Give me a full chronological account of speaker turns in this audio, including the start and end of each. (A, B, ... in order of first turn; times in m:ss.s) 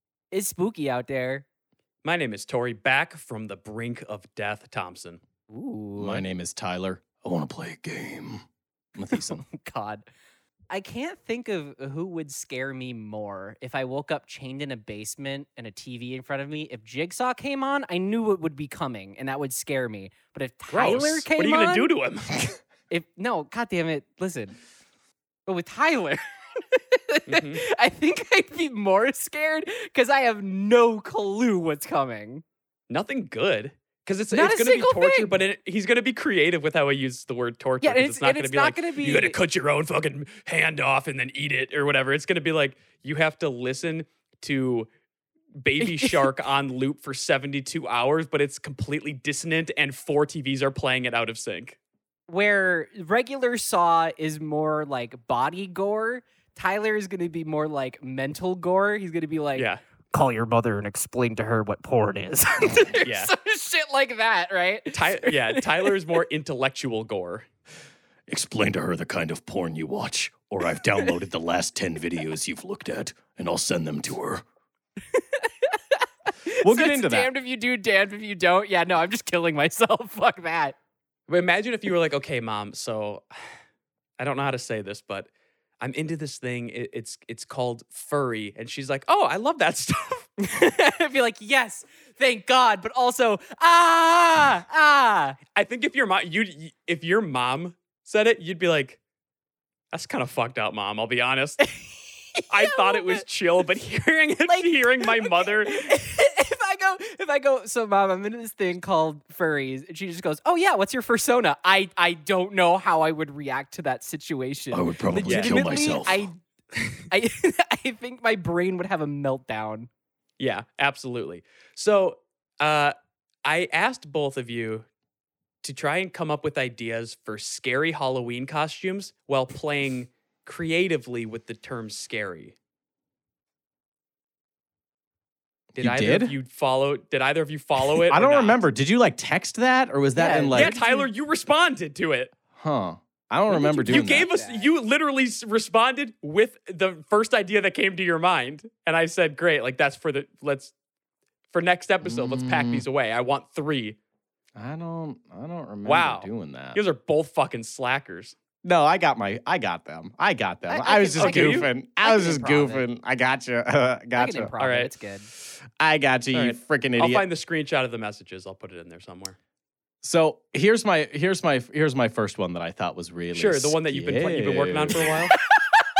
0:00.3-0:01.4 A
0:02.0-0:05.2 B
0:05.5-0:06.2 A
0:06.0-0:08.4 C
0:09.0-0:09.4 C
0:09.2-0:10.0 A
0:10.7-0:21.9 A
0:20.7-0:22.6 B
0:22.9-0:24.6 A
0:25.5-0:32.4 A
0:27.3-0:27.6 B
0:32.9-0:44.9 B
0:34.3-0:35.4 A
0:37.8-0:39.4 A
0:45.6-0:51.8 B
0:45.8-0:46.2 A
0:52.3-1:06.0 A
1:03.0-1:03.3 B
1:04.9-1:07.4 B
1:08.3-1:14.4 C
1:15.1-1:20.7 A
1:16.6-1:17.3 C
1:21.3-1:23.2 B
1:24.2-1:30.3 B
1:30.4-1:35.4 A
1:35.5-1:39.0 B
1:39.9-1:41.7 B
1:42.3-1:43.2 A
1:42.5-1:45.9 B
1:44.5-1:56.4 A
1:54.7-1:56.3 C
1:55.2-1:55.8 B
1:56.9-1:59.9 A
2:00.4-2:04.8 B
2:05.6-2:12.5 B
2:15.7-2:18.6 B
2:15.8-2:16.3 C
2:18.0-2:20.7 C
2:20.2-2:21.1 A
2:20.5-2:22.3 B
2:22.5-2:24.3 C
2:23.5-2:24.7 A
2:23.8-2:30.7 B
2:31.5-2:34.0 B
2:32.0-2:32.8 C
2:34.5-2:36.8 C
2:35.8-2:38.3 B
2:38.6-2:44.5 C
2:40.7-2:42.8 A
2:41.2-2:41.7 B
2:44.2-2:45.3 A
2:44.6-2:44.9 B
2:45.6-2:47.2 C
2:46.3-2:49.4 B
2:50.0-2:55.3 C
2:53.3-2:55.4 B